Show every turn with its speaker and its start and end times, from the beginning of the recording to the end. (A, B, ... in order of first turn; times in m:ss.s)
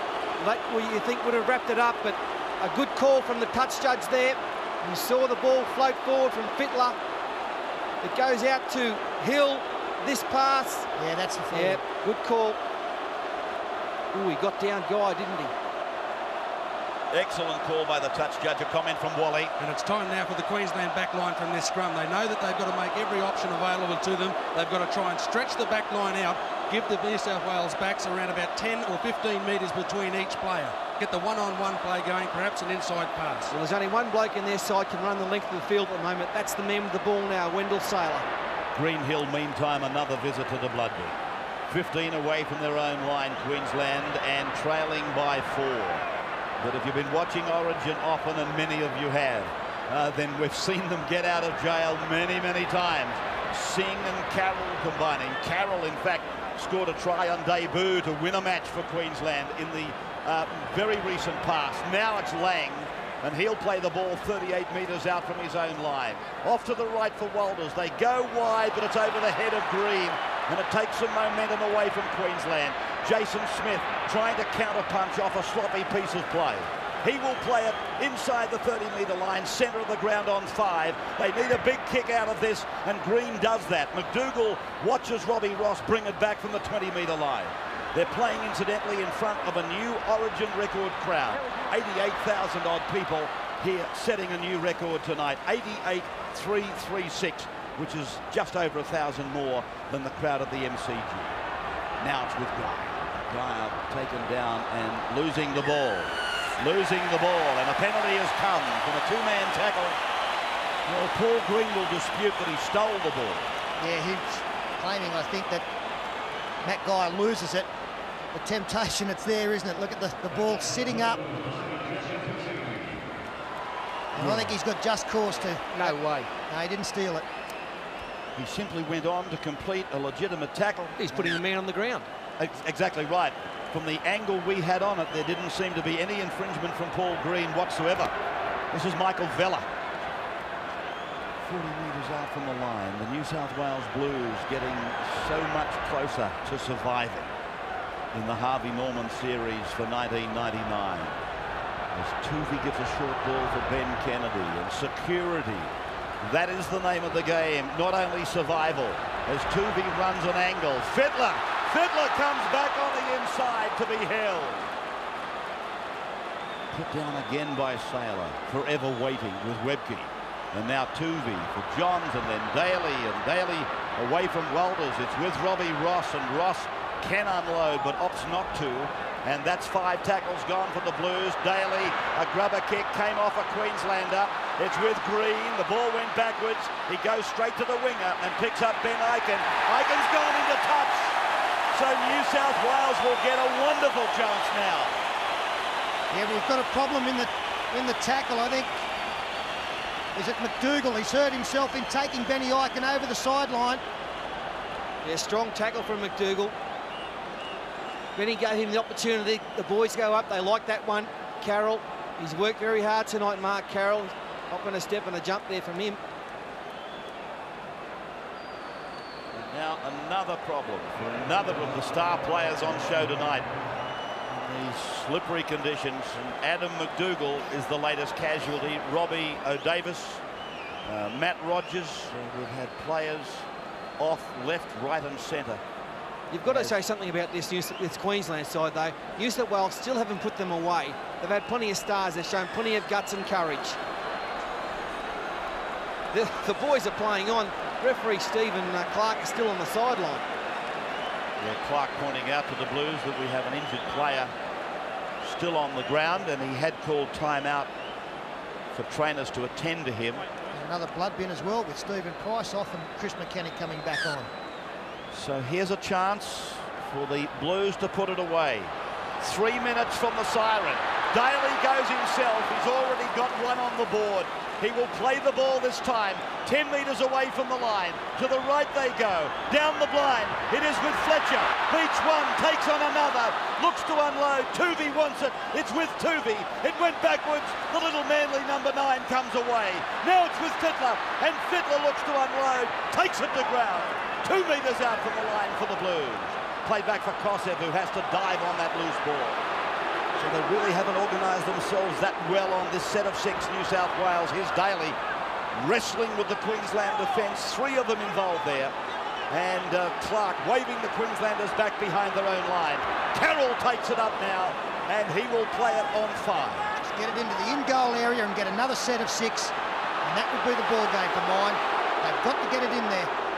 0:00.4-0:07.0 A
0:08.0-0:10.9 A
0:11.0-0:11.8 B
0:11.5-0:12.6 A
0:14.1-0:15.5 A
0:17.1-0:19.6 C
0:19.6-0:33.5 D
0:33.5-0:38.3 A
0:38.7-0:46.1 C
0:46.6-1:41.4 C
1:42.0-1:50.0 C
1:50.9-1:53.5 C
1:53.8-1:55.6 B
1:56.6-1:57.7 B
1:58.3-2:01.3 B
2:04.2-2:07.2 B
2:04.2-2:04.5 C
2:05.7-2:06.3 A
2:08.4-2:11.4 C
2:11.0-2:12.1 A
2:12.4-2:18.1 C
2:18.7-2:19.7 C
2:21.4-2:27.3 C
2:28.1-2:31.2 C
2:31.9-2:44.7 C
2:46.7-3:11.2 C
3:11.7-3:14.9 C
3:16.1-3:18.8 B
3:20.2-3:23.8 B
3:25.0-3:26.6 A
3:28.2-3:36.0 A
3:39.3-3:43.5 C
3:44.3-3:50.2 C
3:50.9-3:53.5 C
3:54.0-3:55.6 C
3:56.3-4:03.8 A
3:56.4-3:56.8 C
4:06.1-4:10.2 A
4:11.4-4:14.3 C
4:15.2-4:17.7 C
4:18.7-4:20.3 C
4:20.5-4:24.3 B
4:25.1-4:59.4 C
5:00.2-5:05.0 C
5:05.5-5:08.7 C
5:09.3-5:16.8 C
5:16.8-5:23.1 B